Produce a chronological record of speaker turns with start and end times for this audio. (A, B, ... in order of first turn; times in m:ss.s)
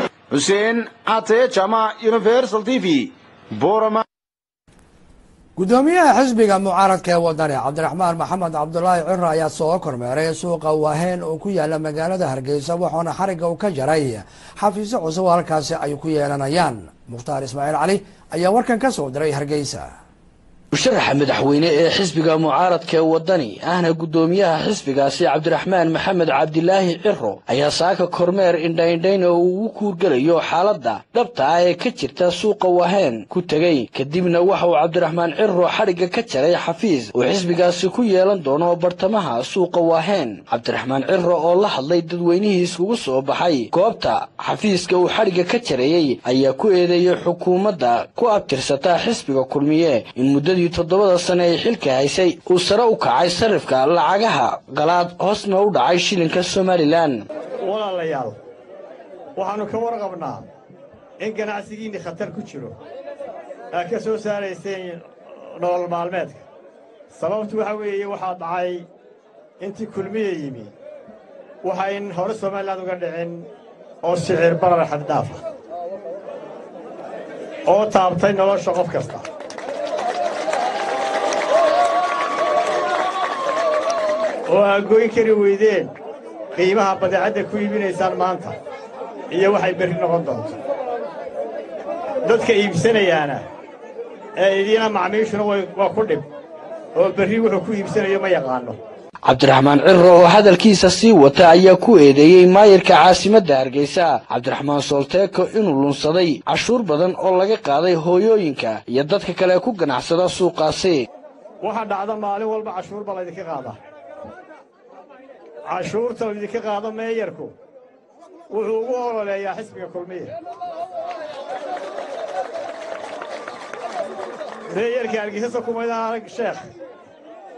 0:00.3-0:04.0 A
0:05.6-0:19.9 B
0:20.7-0:57.2 C
0:57.6-0:58.3 D
0:59.4-1:00.4 D
1:01.2-1:02.7 D
1:03.7-1:06.4 D
1:07.1-1:08.8 D
1:09.6-1:10.7 D
1:11.6-1:13.4 D
1:14.0-1:15.4 D
1:17.7-1:19.2 D
1:24.5-1:25.9 D
1:26.6-1:28.6 D
1:29.3-1:30.6 D
1:32.2-1:33.4 D
1:34.4-1:36.2 D
1:37.0-1:38.8 D
1:39.2-1:51.0 C
1:51.6-1:53.8 D
1:55.7-1:57.5 D
1:58.5-2:00.3 D
2:04.7-2:06.6 D